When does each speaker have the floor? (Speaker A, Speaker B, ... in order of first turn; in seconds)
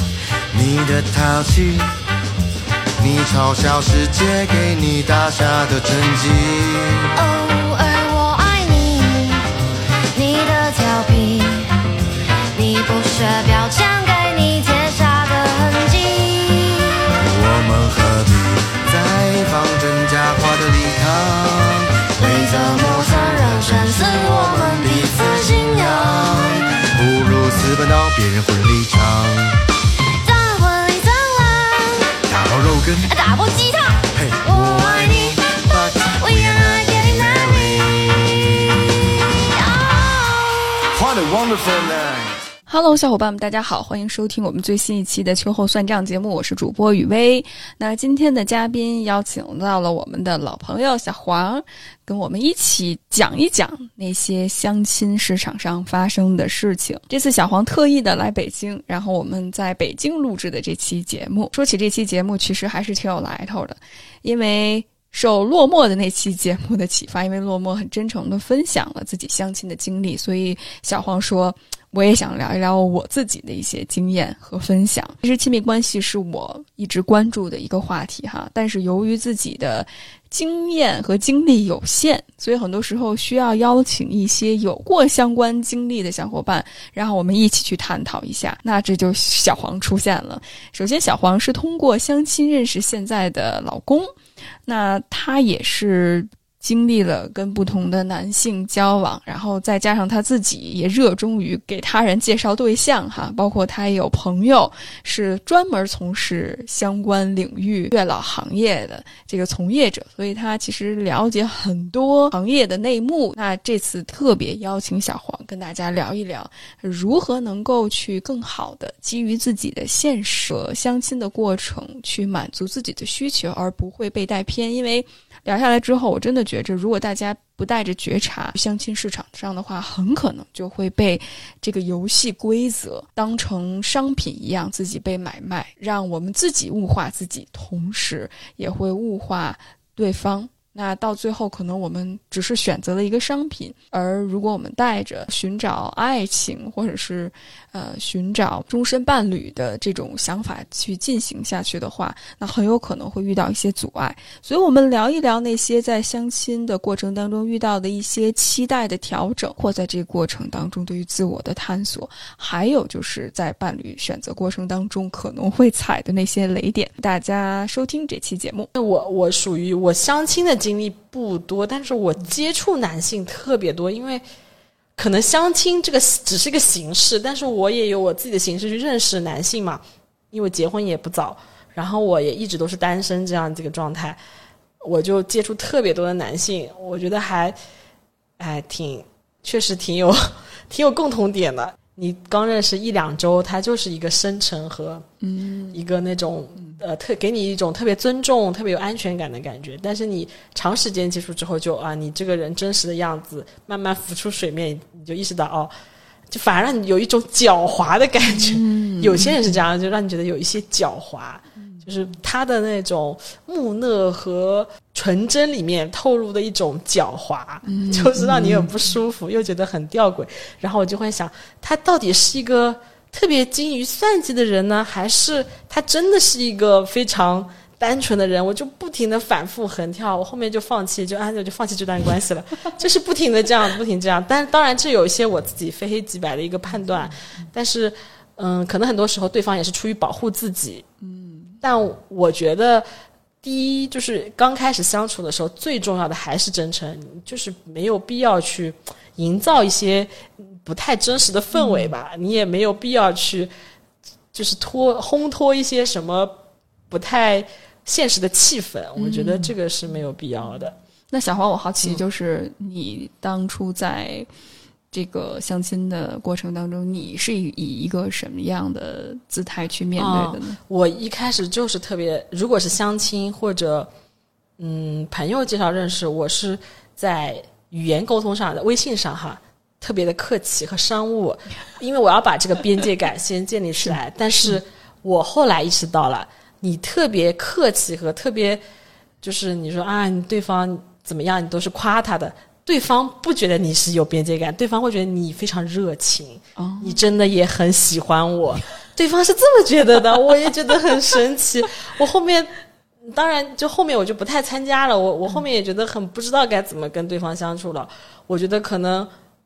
Speaker A: 0.5-1.9, 3.0-7.1, 17.2-29.6, 32.3-33.2, 34.1-38.9, 40.9-42.4
Speaker B: 7.1-9.4, 10.1-11.7, 12.5-17.1, 22.2-26.6, 30.2-32.1, 33.1-37.7, 39.5-40.6
Speaker C: 42.7-94.1, 94.7-168.7, 195.2-195.8, 208.2-209.5, 217.7-218.7, 241.0-241.6, 251.5-251.9, 259.0-259.5, 261.1-264.3, 264.9-270.6, 283.8-284.6, 296.6-297.0
Speaker D: 168.7-174.2, 175.0-184.2, 184.8-187.6, 188.4-195.0, 195.7-205.7, 206.3-240.8, 241.6-242.8, 243.4-253.5, 254.3-256.3, 256.9-260.8, 270.0-273.9, 274.6-288.6, 289.2-302.5, 303.0-309.1